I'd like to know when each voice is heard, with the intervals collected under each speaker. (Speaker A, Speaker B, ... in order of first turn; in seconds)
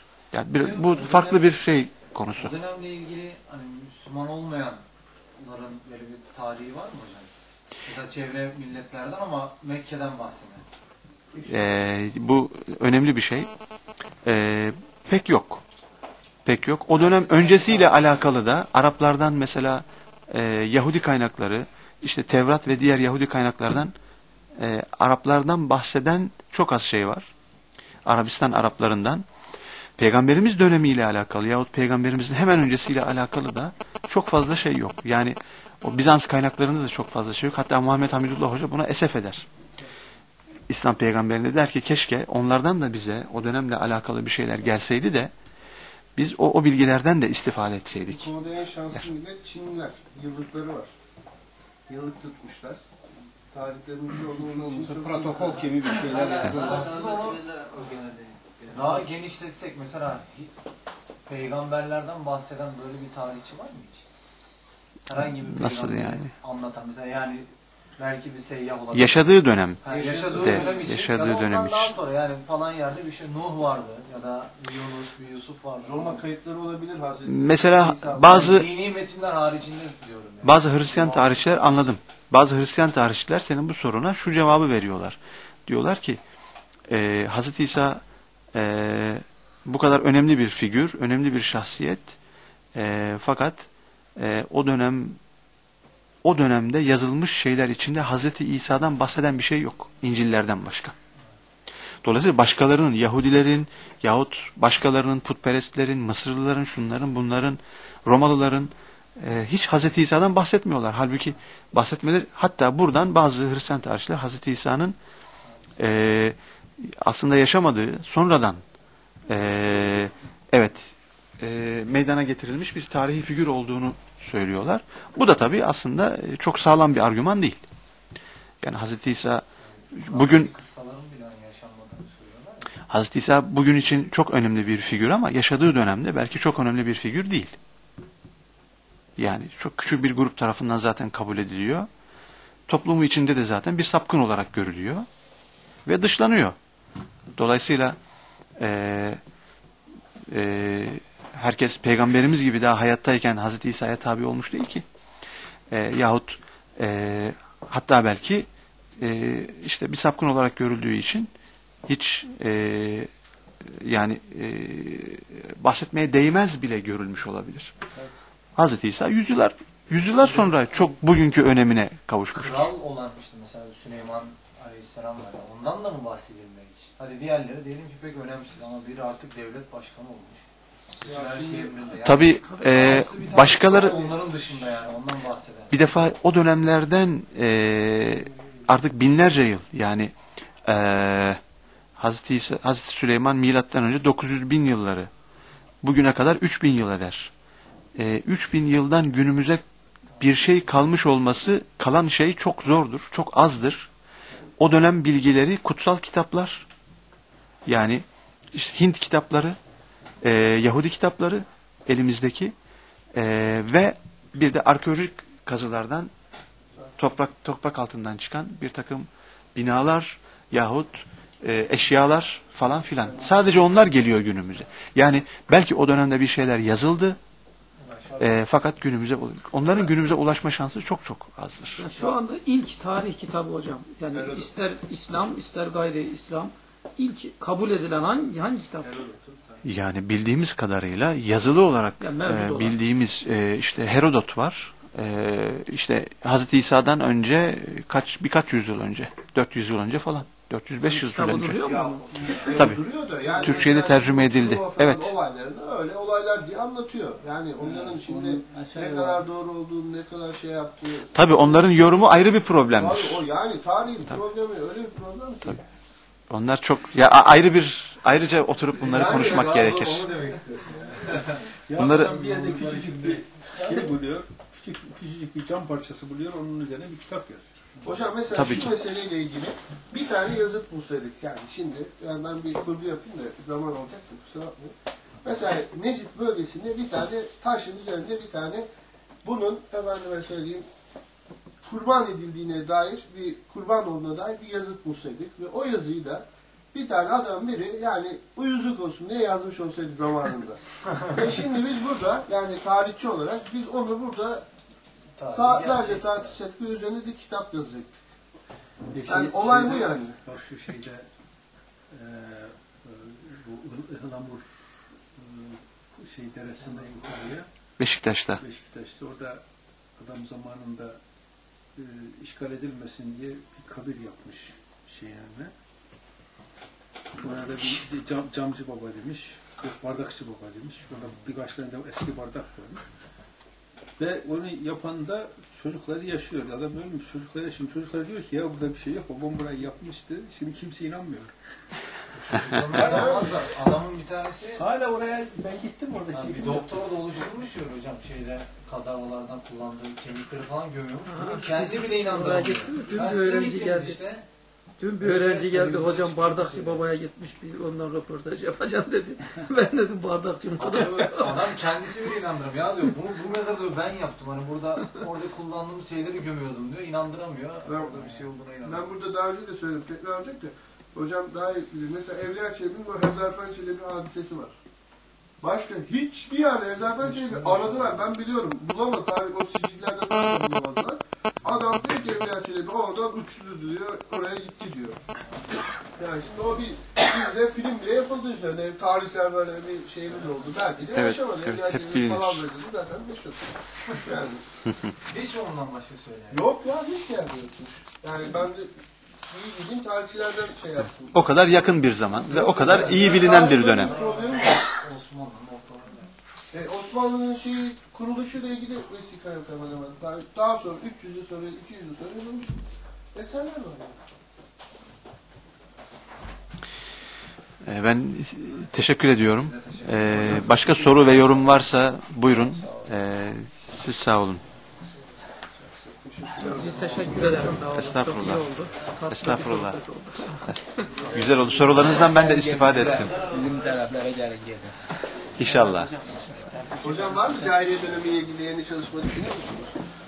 Speaker A: 0.3-2.5, 11.4-13.5, 14.2-15.6, 16.4-23.9, 24.6-27.3, 28.1-29.2, 30.0-39.5, 40.7-45.3, 46.1-48.3, 65.4-66.3, 68.9-71.9, 77.3-78.7, 80.4-86.2, 86.9-88.0, 88.5-92.2, 92.7-95.2, 96.2-100.9, 102.0-115.0, 115.8-118.6, 119.3-127.6, 128.6-130.5, 132.9-137.6, 139.2-141.9, 142.7-145.1, 145.8-146.6, 147.3-147.9, 148.6-149.2, 150.3-154.8, 155.7-161.3, 161.9-163.1, 163.6-167.7, 168.6-172.7, 182.0-184.0, 185.7-190.1, 190.7-191.4, 192.0-195.1, 195.8-197.3, 197.9-199.6, 200.2-203.9, 204.6-206.7, 207.7-209.6, 210.2-212.5, 213.1-216.1, 217.0-227.2, 228.2-231.8, 239.6-251.6, 252.5-252.8, 253.4-255.1, 261.1-263.2, 266.3-270.1, 271.8-272.2, 278.3-278.7, 317.8-318.4, 390.9-392.4, 401.1-403.9, 417.6-424.4, 427.7-428.5, 429.1-429.8, 431.1-433.3, 435.4-435.9
Speaker B: 0.6-1.6, 2.3-4.8, 5.4-7.3, 7.8-10.6, 16.9-18.2, 55.8-57.9, 58.6-60.5, 61.3-64.0, 65.0-69.3, 69.8-76.2, 78.2-81.8, 115.5-115.8, 129.7-132.8, 172.3-180.5, 181.0-185.8, 227.8-228.4, 268.7-271.5, 272.0-273.7, 305.2-306.4, 342.1-344.6, 346.1-354.2, 355.0-356.8, 360.6-368.9, 377.0-377.9, 395.0-396.4, 402.6-406.1, 419.3-421.6, 433.1-433.4
Speaker C: 48.1-50.9, 51.9-52.8, 53.5-55.7, 69.8-70.9, 75.8-78.6, 181.0-181.8, 182.9-184.8, 234.1-234.5, 238.8-239.6, 251.6-261.7, 262.7-265.6, 268.9-269.8, 277.8-288.7, 289.2-290.6, 291.6-304.4, 305.3-307.9, 309.1-310.2, 342.8-343.3, 367.6-374.5, 375.4-385.0, 385.9-394.5, 396.3-398.7, 399.3-401.2, 402.2-404.6, 406.5-412.6, 413.1-414.0, 425.5-427.7, 436.8-439.8
Speaker D: 54.4-58.8, 257.6-259.2, 431.7-434.8, 435.4-437.3
Speaker E: 54.8-56.9, 271.5-277.9, 308.9-311.1, 311.9-317.5, 318.4-319.4, 320.0-321.0, 321.8-325.5, 327.2-332.9, 334.0-341.3, 342.7-343.2, 344.6-346.8
Speaker F: 182.2-183.4, 231.8-238.9, 242.0-242.8, 250.8-252.0, 351.1-354.0, 354.8-361.4, 426.4-430.9